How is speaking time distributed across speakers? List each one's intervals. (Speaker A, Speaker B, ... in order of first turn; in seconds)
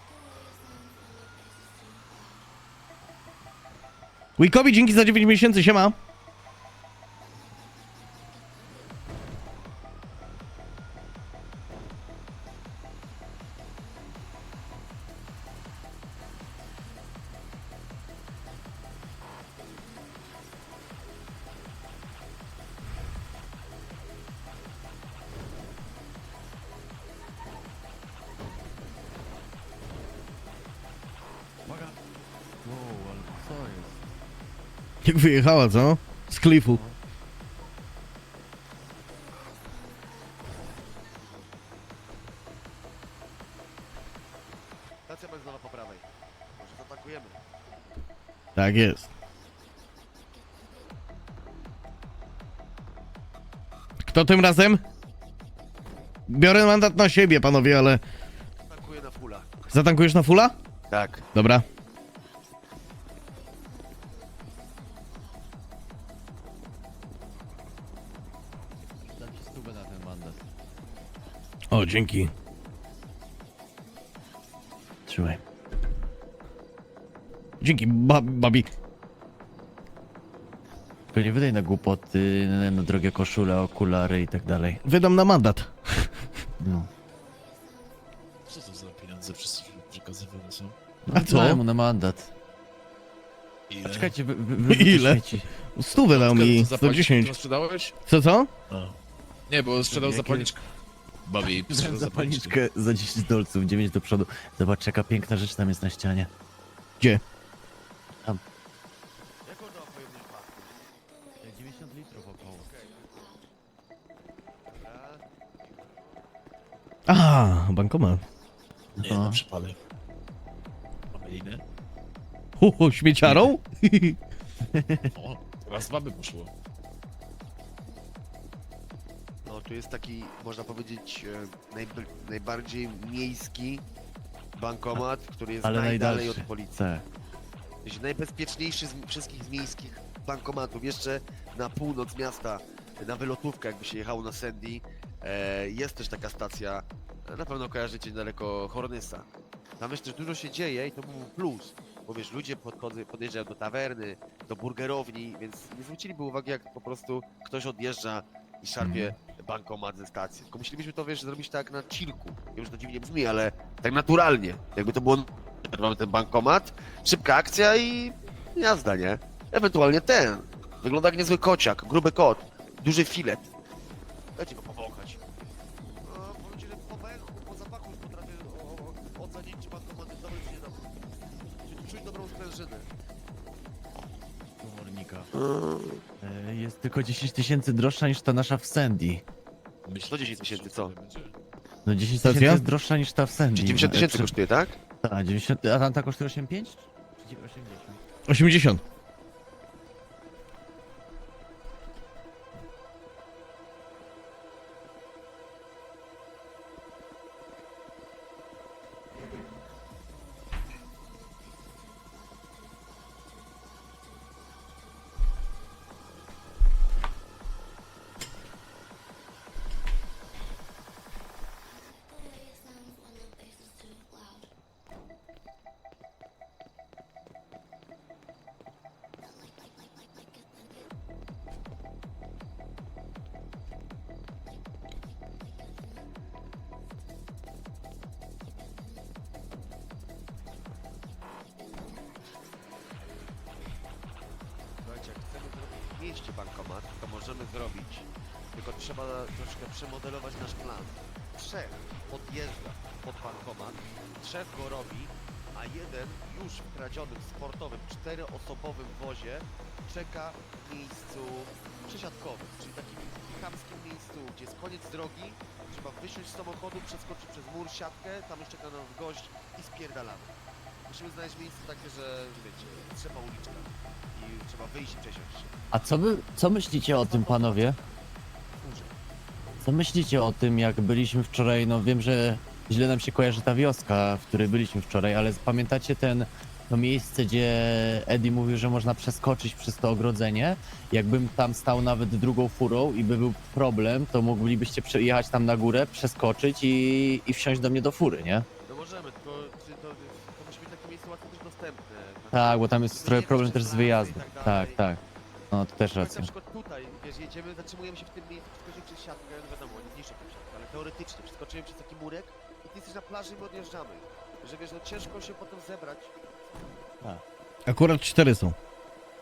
Speaker A: 4.4-6.0, 35.0-36.8, 48.5-49.1, 54.0-54.8, 56.3-58.0, 59.7-60.5, 61.3-61.6, 71.7-72.3, 77.6-78.7, 84.8-86.3, 91.1-91.6, 94.7-97.4, 98.0-98.5, 117.1-118.2, 122.6-124.2, 192.2-192.6, 198.3-198.8, 317.7-318.6
Speaker B: 31.6-32.0, 32.6-34.0, 36.7-37.0, 69.1-70.4, 75.1-75.4, 81.1-84.8, 86.6-86.9, 91.0-92.3, 93.8-95.5, 99.9-100.5, 101.5-106.3, 111.4-112.7, 119.0-119.4, 124.7-125.1, 135.6-137.1, 158.8-159.1, 184.6-185.3, 186.2-189.2, 191.8-194.3, 195.0-198.0, 275.7-277.8, 279.6-298.4, 302.3-306.3
Speaker C: 45.1-46.0, 46.6-47.4, 58.7-59.5, 60.9-61.3, 109.4-110.8, 112.6-113.3, 114.7-116.2, 129.4-133.9, 134.6-136.8, 137.8-149.3, 149.8-173.5, 174.3-175.2, 176.0-180.9, 181.6-182.9, 185.4-186.0, 190.0-190.9, 193.5-194.8, 244.8-275.5, 277.1-277.8, 278.6-278.9, 298.6-304.8, 306.0-316.1
Speaker D: 88.5-90.8, 93.7-94.1, 95.9-97.9, 98.7-100.6, 101.2-102.6, 119.0-119.8, 121.1-121.6, 125.1-126.5, 189.8-191.3